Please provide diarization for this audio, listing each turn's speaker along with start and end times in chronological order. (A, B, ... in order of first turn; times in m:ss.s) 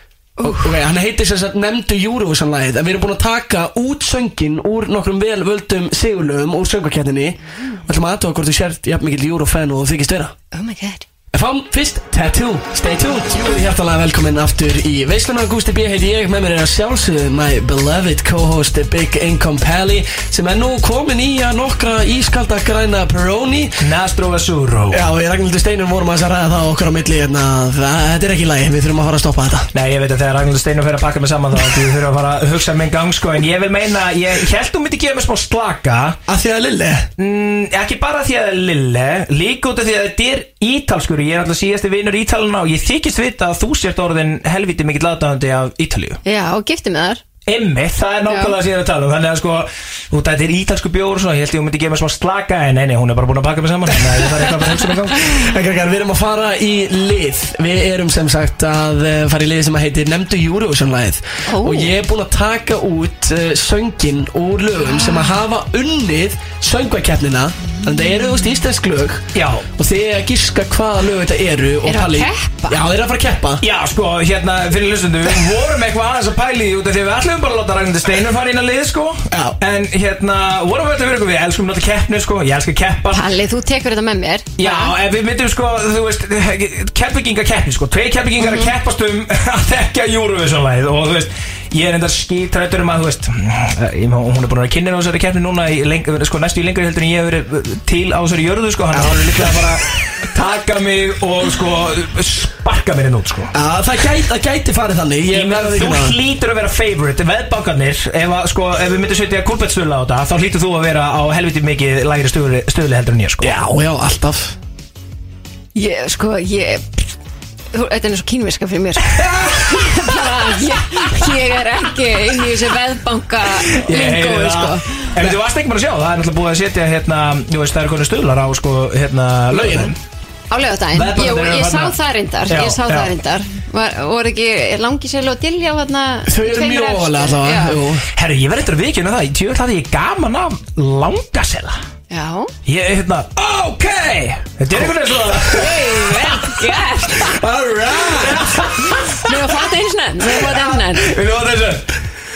0:00.4-0:00.7 A
0:00.4-0:10.3 B
0:10.5-0:11.0 A
0:11.3-0:23.7 B
0:23.8-0:25.0 C
0:24.9-0:29.7 B
0:29.7-0:36.2 C
0:36.3-0:37.1 B
0:37.2-0:46.2 C
0:46.2-0:47.2 A
0:47.5-0:55.4 C
0:48.3-0:48.6 A
0:55.2-1:13.6 B
1:01.5-1:01.9 A
1:05.0-1:05.3 A
1:07.6-1:08.4 A
1:09.3-1:09.6 C
1:11.8-1:12.8 A
1:13.6-1:23.3 C
1:23.1-1:24.9 A
1:24.6-1:43.5 C
1:28.4-1:28.7 A
1:38.9-1:39.6 B
1:43.5-1:46.2 B
1:45.3-1:53.6 C
1:53.4-1:54.5 B
1:55.7-1:57.1 A
1:57.7-2:05.1 A
1:59.2-1:59.7 C
2:03.5-2:10.0 C
2:09.5-2:09.9 B
2:10.5-2:17.8 A
2:10.9-2:12.0 C
2:12.5-2:13.1 C
2:16.3-2:18.0 B
2:18.1-2:21.8 C
2:22.1-2:22.5 A
2:22.6-2:26.6 C
2:24.7-2:25.4 B
2:25.5-2:27.4 A
2:27.2-2:28.5 B
2:28.1-2:29.5 C
2:29.2-2:31.1 A
2:30.2-2:31.9 C